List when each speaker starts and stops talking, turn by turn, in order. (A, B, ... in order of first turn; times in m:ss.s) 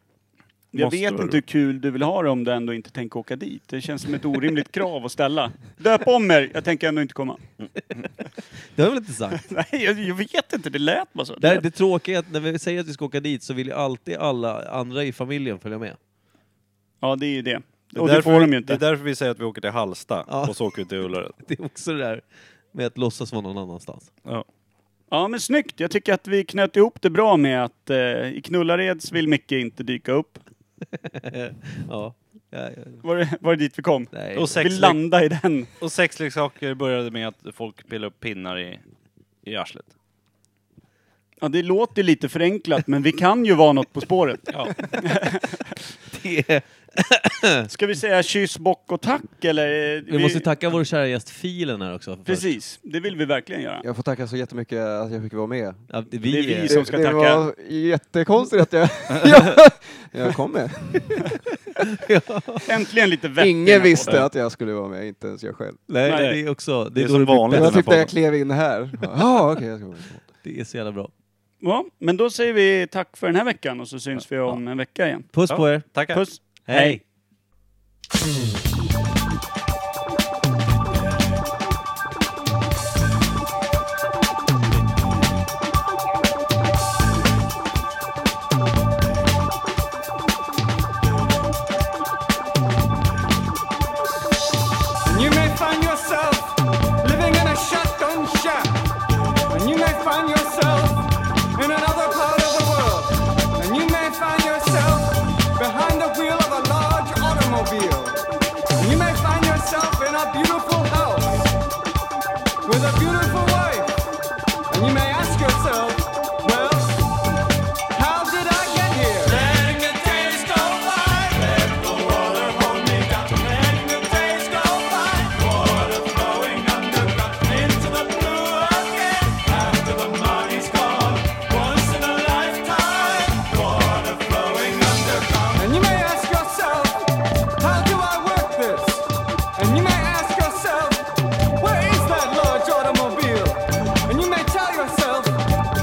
0:00.7-0:07.4 A
0:00.8-0:01.4 B
0:08.7-0:09.4 C
0:09.5-0:11.6 A
0:11.4-0:16.0 C
0:17.0-0:18.8 A
0:18.0-0:21.4 B
0:20.3-0:20.6 C
0:21.4-0:24.1 C
0:25.1-0:30.4 A
0:30.9-0:33.0 C
0:33.0-0:35.7 A
0:34.1-0:34.6 C
0:34.3-0:35.0 B
0:35.8-0:38.8 B
0:39.4-0:39.9 B
0:41.4-0:45.6 A
0:44.5-0:44.9 B
0:46.1-0:47.7 C
0:47.7-0:50.4 A
0:50.1-0:52.5 C
0:52.2-0:53.8 A
0:53.8-0:55.9 D
0:55.9-0:56.8 C
0:56.3-0:57.4 A
0:56.7-1:01.3 D
1:01.8-1:02.6 C
1:02.6-1:04.2 A
1:03.4-1:05.8 D
1:05.9-1:08.1 C
1:06.0-1:06.4 A
1:06.1-1:06.4 B
1:07.0-1:08.1 B
1:07.5-1:10.3 D
1:10.4-1:11.1 C
1:11.6-1:15.3 A
1:15.3-1:16.0 C
1:15.5-1:16.2 B
1:16.1-1:17.0 A
1:16.6-1:17.0 C
1:35.0-1:38.8 E
1:39.5-1:51.5 E
1:52.6-1:54.0 E
1:54.7-1:57.0 E
1:57.9-2:25.5 E